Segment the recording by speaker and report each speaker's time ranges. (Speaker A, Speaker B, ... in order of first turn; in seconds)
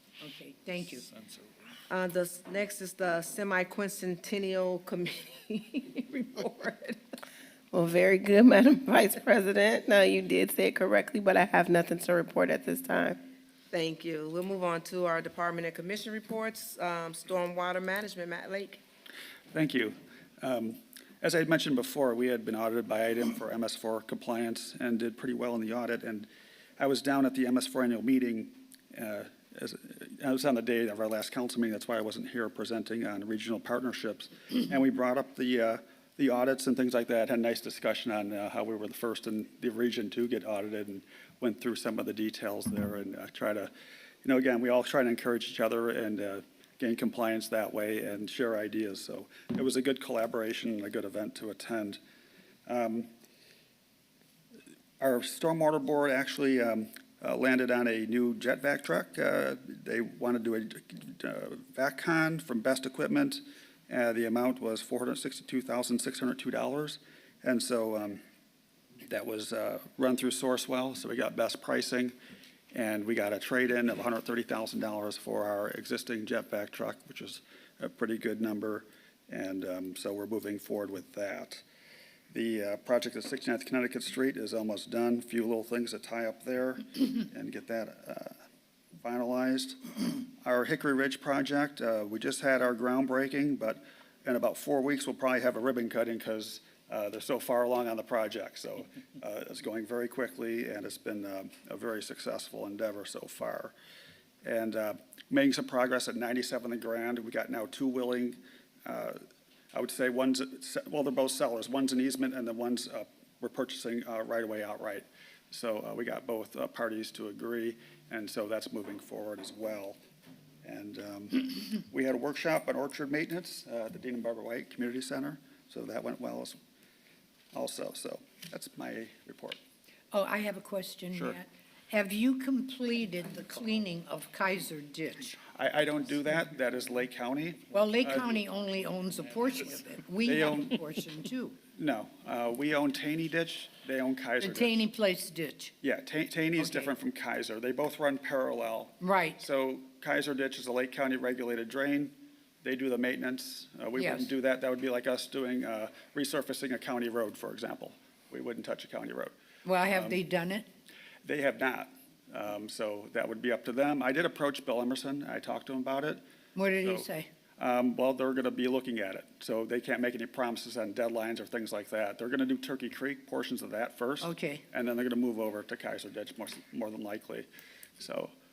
Speaker A: 0.2-1.1, 130.1-135.4, 137.7-141.6, 144.4-145.7, 146.6-146.9, 149.0-149.4, 153.9-154.3, 159.6-160.7, 166.6-167.3, 174.2-174.6
Speaker B: 1.9-7.0, 13.7-18.8
Speaker C: 7.7-13.2
Speaker D: 19.5-43.7, 44.2-52.0, 52.7-53.1, 55.0-68.2, 69.0-72.1, 72.7-81.6, 82.3-88.3, 89.0-103.7, 104.4-109.2, 109.7-120.0, 120.6-126.6, 127.5-129.6, 135.5-138.2, 140.2-140.8, 141.8-144.8, 145.8-159.3, 159.9-160.2, 161.2-166.2, 166.8-167.1, 167.6-177.5, 178.0-178.3